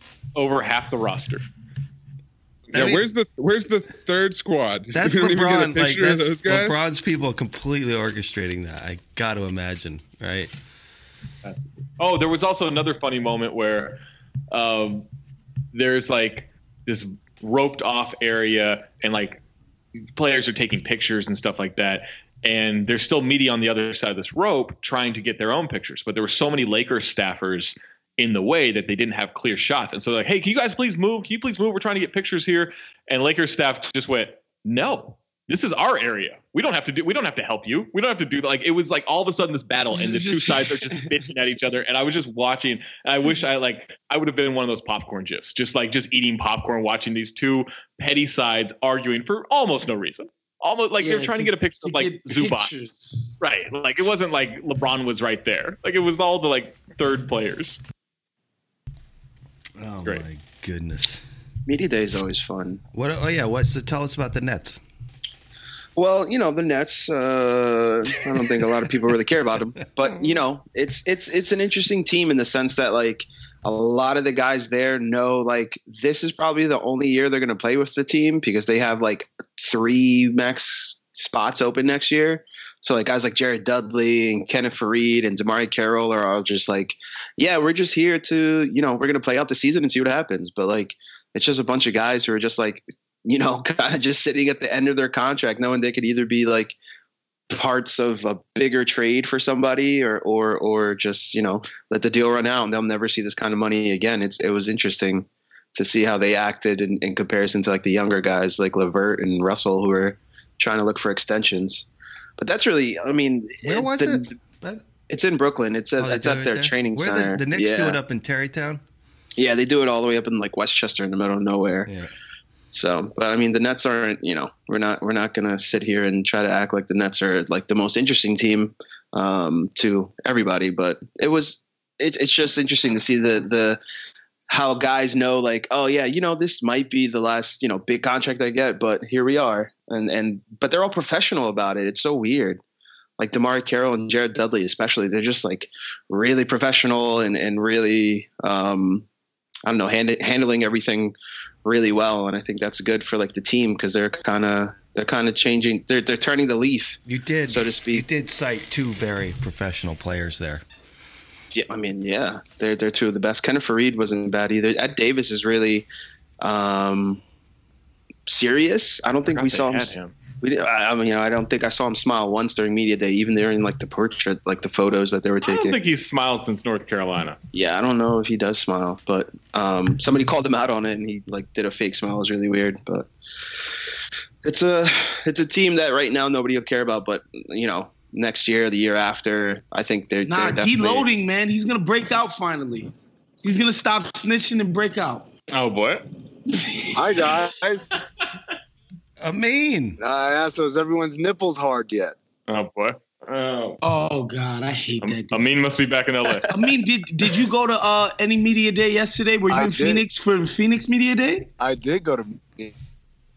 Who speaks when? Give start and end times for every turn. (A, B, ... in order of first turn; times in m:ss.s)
0:00.4-0:01.4 A
0:02.7-0:03.0 B
0:02.7-0:06.8 C
0:04.9-0:10.5 B
0:11.4-0:14.0 A
0:14.5-0:15.1 A
0:15.7-0:19.4 A
0:20.2-0:57.8 A
0:39.9-0:41.0 D
0:51.0-0:53.4 D
0:59.8-1:01.2 B
1:01.7-1:02.8 E
1:02.9-1:04.8 B
1:06.0-1:36.8 E
1:08.3-1:08.9 B
1:37.5-1:51.9 E
1:52.4-1:54.3 E
1:53.6-1:54.9 B
1:55.1-1:58.0 E
1:56.0-1:58.8 B
1:59.4-2:01.9 E
2:01.9-2:02.1 B
2:02.7-2:13.8 E
2:14.5-2:22.6 E
2:23.2-2:29.0 E
2:29.7-2:38.0 E
2:37.1-2:40.6 B
2:41.5-2:45.9 E
2:46.4-2:47.2 E
2:48.3-2:55.8 E
2:49.3-2:50.1 A
2:55.4-2:57.4 A
2:57.5-3:03.1 E
3:04.4-3:11.1 E
3:10.2-3:15.3 D
3:15.5-3:16.1 A
3:16.9-3:17.9 F
3:19.2-3:20.0 B
3:20.0-3:22.2 F
3:22.5-3:23.8 A
3:23.8-3:25.5 D
3:25.0-3:26.5 A
3:26.5-3:31.5 D
3:29.5-3:30.0 F
3:31.6-3:32.7 F